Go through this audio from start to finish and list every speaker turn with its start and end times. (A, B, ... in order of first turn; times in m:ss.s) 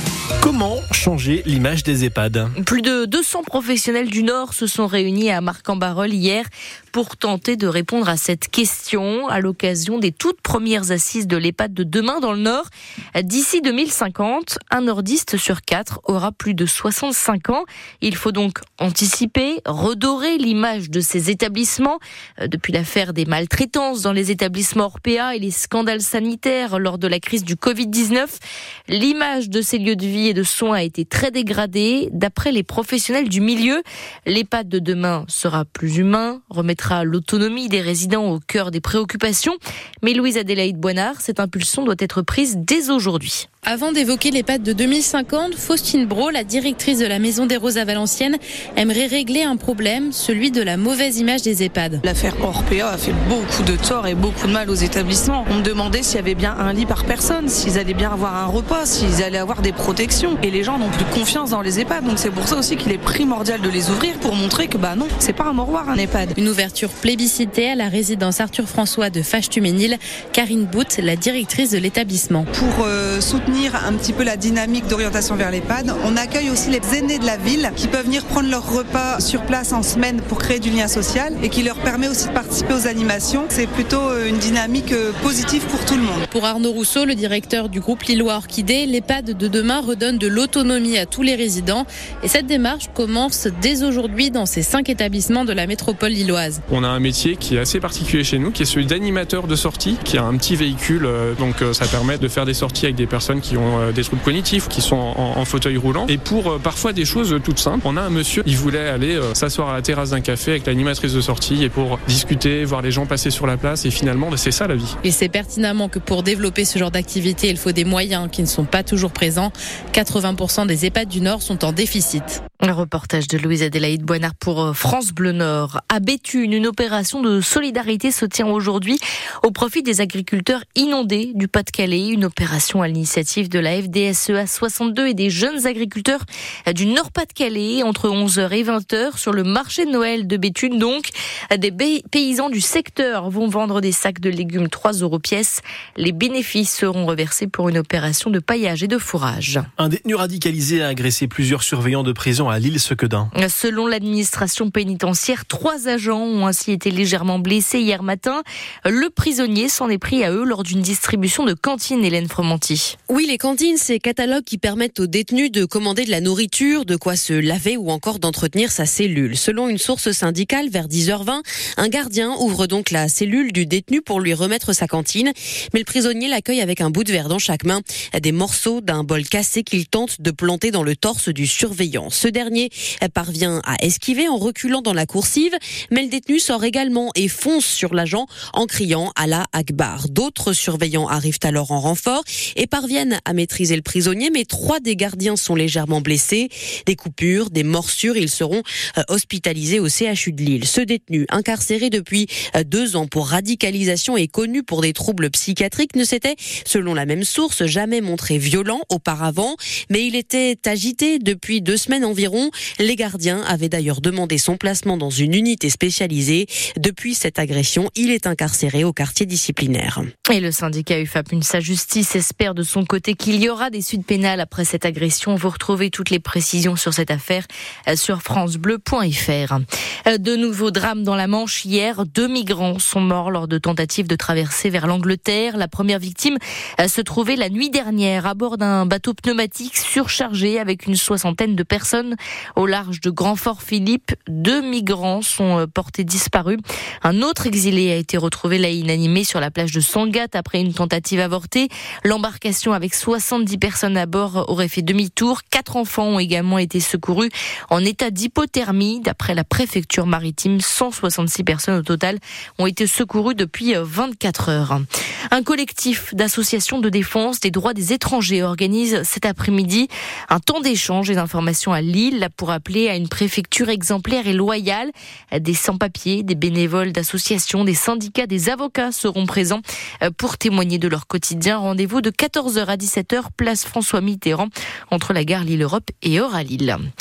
0:00.4-0:02.5 A
0:02.6-0:43.5 B
0:43.6-0:52.0 C
0:52.0-1:06.3 D
1:06.4-1:12.5 C
1:12.5-1:26.2 E
1:26.3-1:36.6 C
1:36.7-1:55.0 F
1:55.0-2:02.4 C
2:02.6-2:29.7 B
2:29.8-2:33.3 A
2:33.3-2:42.9 B
2:43.1-3:40.1 G
3:40.3-4:46.8 B